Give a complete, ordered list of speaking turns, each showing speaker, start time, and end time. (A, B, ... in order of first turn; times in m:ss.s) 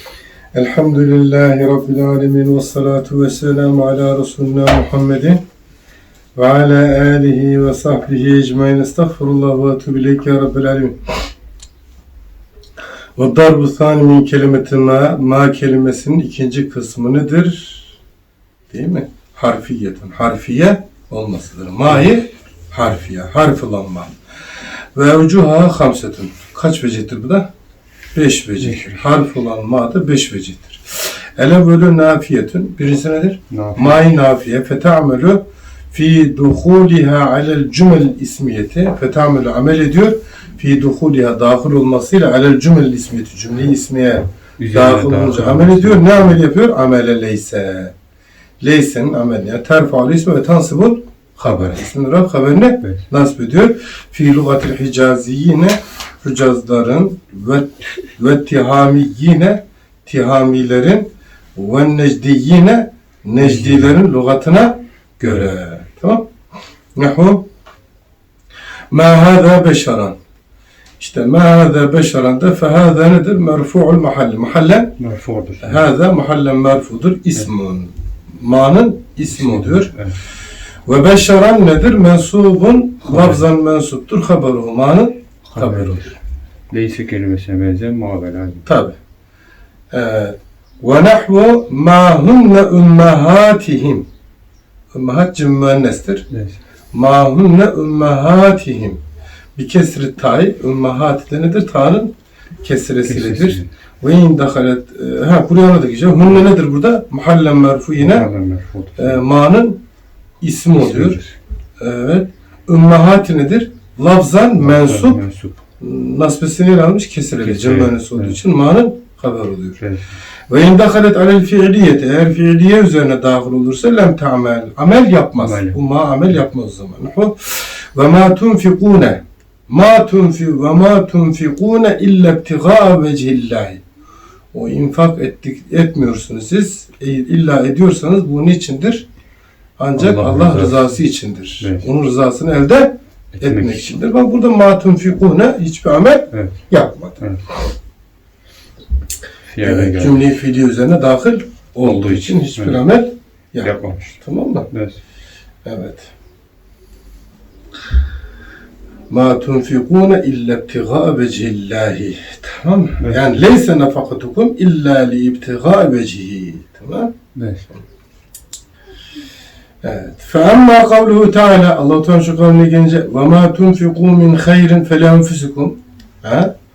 0:00.5-0:05.4 A
0:06.4-0:11.0 A
0:13.2-0:18.0 A
0:18.7-0:24.1 A
0:21.9-0:22.1 B
0:24.9-0:27.5 A
0:28.1-0:47.9 A
0:28.6-0:29.1 B
0:33.5-0:34.0 B
0:44.6-0:46.4 B
0:48.6-1:06.3 A
1:03.4-1:04.0 B
1:05.2-1:05.5 B
1:07.0-1:07.4 A
1:08.9-1:10.2 A
1:11.0-1:15.0 A
1:15.0-1:15.8 B
1:15.6-1:19.9 A
1:19.3-1:20.2 B
1:20.8-1:26.1 A
1:23.0-1:23.4 B
1:25.4-1:26.1 B
1:26.7-1:28.7 B
1:28.6-1:29.0 A
1:29.9-1:34.0 A
1:34.9-1:36.2 A
1:36.3-1:36.6 B
1:36.9-1:39.0 A
1:39.6-1:48.3 A
1:43.0-1:43.7 B
1:48.0-1:49.2 B
1:49.0-1:49.8 A
1:50.4-1:51.2 A
1:50.8-1:51.4 B
1:51.8-1:55.2 A
1:54.6-1:55.6 B
1:55.8-1:59.8 A
1:57.4-1:58.4 B
1:59.8-2:00.2 B
2:00.5-2:13.8 A
2:05.4-2:05.8 B
2:14.5-2:19.0 A
2:19.8-2:27.6 A
2:20.0-2:21.0 B
2:21.6-2:21.9 B
2:23.3-2:23.9 B
2:26.3-2:26.6 B
2:27.2-2:27.4 B
2:29.5-2:30.4 B
2:29.6-2:34.7 A
2:31.8-2:32.8 B
2:33.6-2:34.2 B
2:34.7-2:35.0 B
2:35.6-2:36.1 A
2:39.1-2:47.1 A
2:43.0-2:43.4 B
2:47.3-2:47.7 B
2:49.8-2:56.5 A